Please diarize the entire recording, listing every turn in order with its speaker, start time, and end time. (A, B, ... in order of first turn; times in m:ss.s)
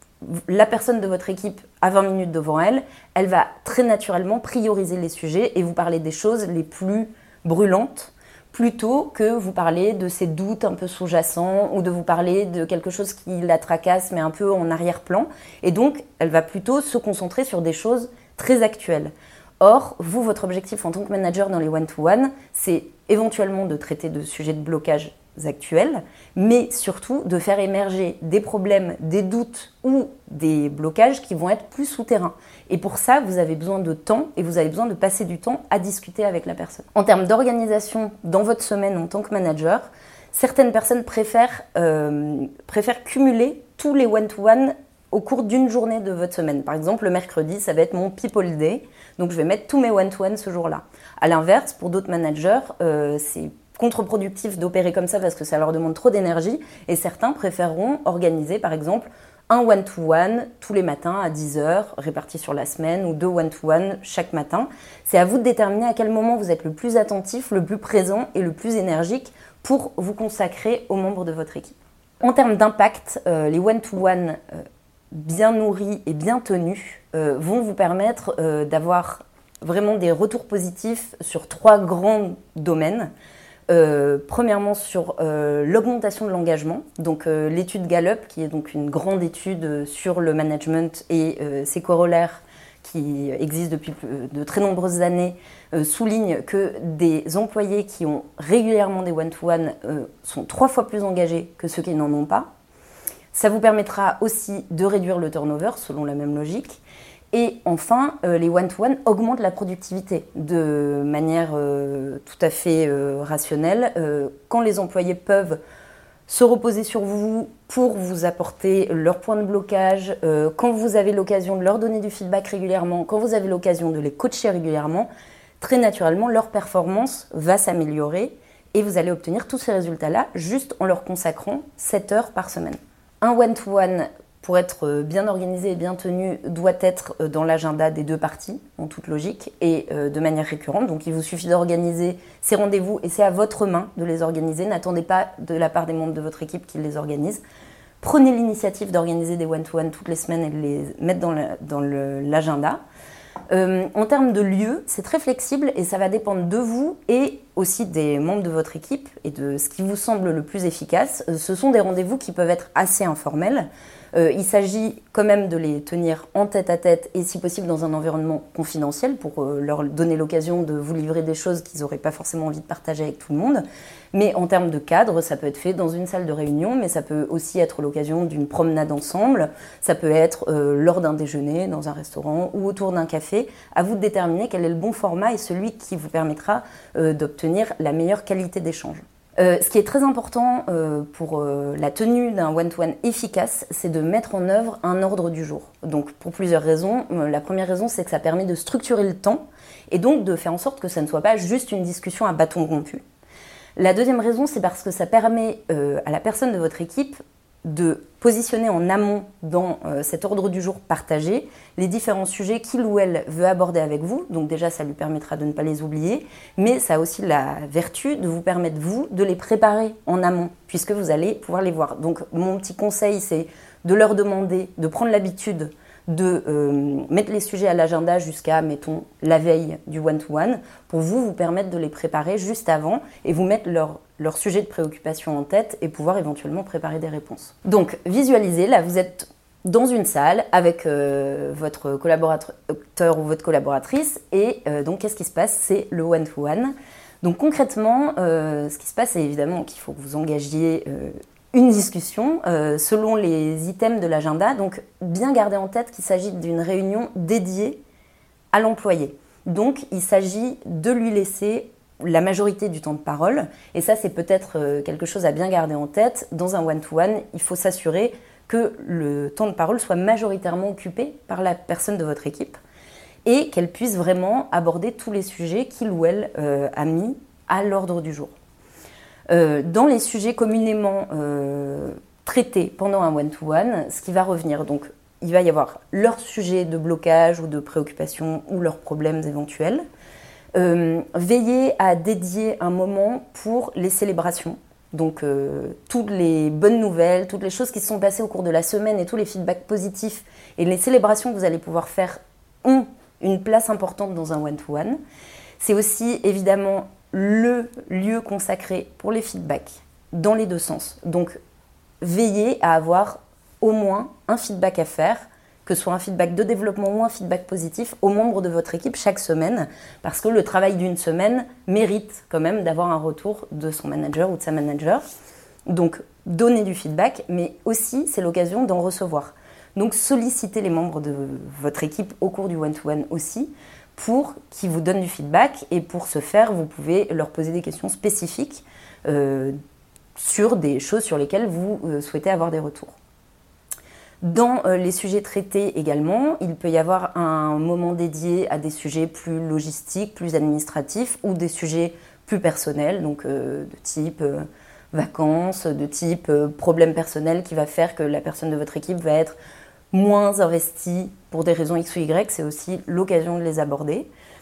0:00.2-1:23.1 A
1:23.7-1:42.5 A
1:43.3-1:46.8 A
1:47.3-1:55.6 A
1:56.3-2:05.1 A
2:05.6-2:27.4 A
2:28.0-2:32.8 A
2:33.5-3:23.0 A
3:23.8-4:17.8 A
4:18.5-4:32.6 A
4:33.2-4:38.3 A
4:39.3-4:49.8 A
4:50.5-5:05.0 A
5:05.6-5:11.4 A
5:12.0-5:25.0 A
5:25.7-5:39.6 A
5:40.2-5:42.9 A
5:44.2-5:59.4 A
5:59.9-6:04.1 A